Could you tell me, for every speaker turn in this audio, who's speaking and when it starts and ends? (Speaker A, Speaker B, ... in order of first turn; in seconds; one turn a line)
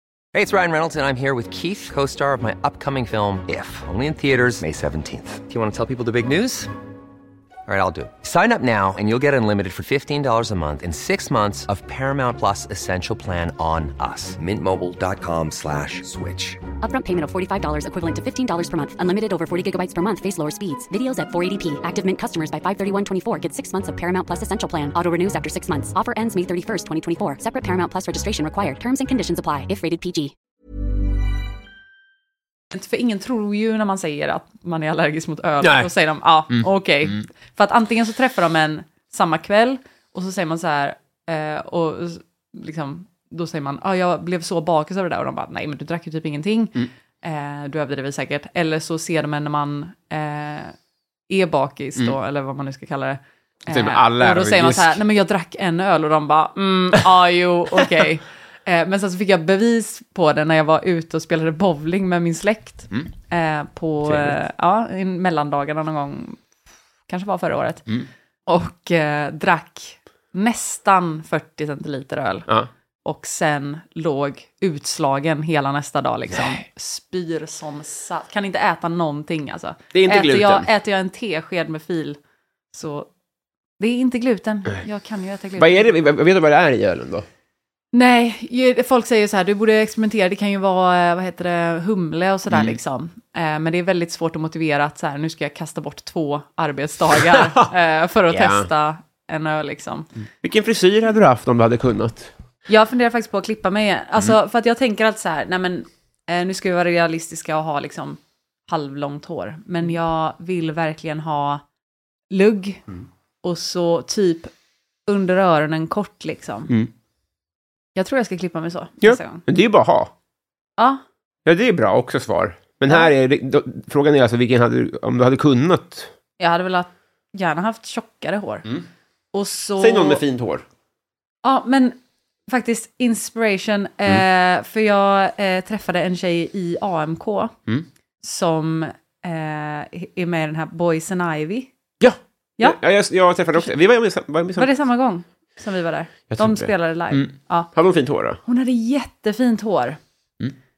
Speaker A: 0.3-6.7
Speaker A: 7.7-16.6
Speaker B: 16.8-30.3
Speaker C: 32.7-50.7
Speaker D: 35.6-35.9
Speaker D: 36.5-37.2
Speaker C: 51.3-66.4
Speaker D: 53.7-55.0
Speaker D: 64.0-64.3
Speaker C: 67.1-67.9
Speaker C: 68.5-72.5
Speaker C: 73.0-82.2
Speaker D: 79.9-80.7
Speaker C: 82.7-83.1
Speaker C: 83.8-85.9
Speaker D: 85.6-87.2
Speaker C: 87.9-100.1
Speaker D: 92.5-92.8
Speaker D: 97.3-97.7
Speaker D: 98.3-98.7
Speaker D: 100.4-102.3
Speaker C: 102.7-111.6
Speaker C: 112.3-112.8
Speaker C: 113.4-114.5
Speaker C: 115.0-116.7
Speaker C: 118.0-119.4
Speaker D: 119.0-120.1
Speaker D: 121.4-126.1
Speaker C: 126.4-128.7
Speaker C: 129.3-130.2
Speaker D: 129.8-130.6
Speaker C: 131.4-132.0
Speaker C: 132.5-137.5
Speaker C: 138.2-141.7
Speaker D: 142.0-144.7
Speaker C: 144.6-147.7
Speaker D: 146.3-148.4
Speaker C: 148.4-150.0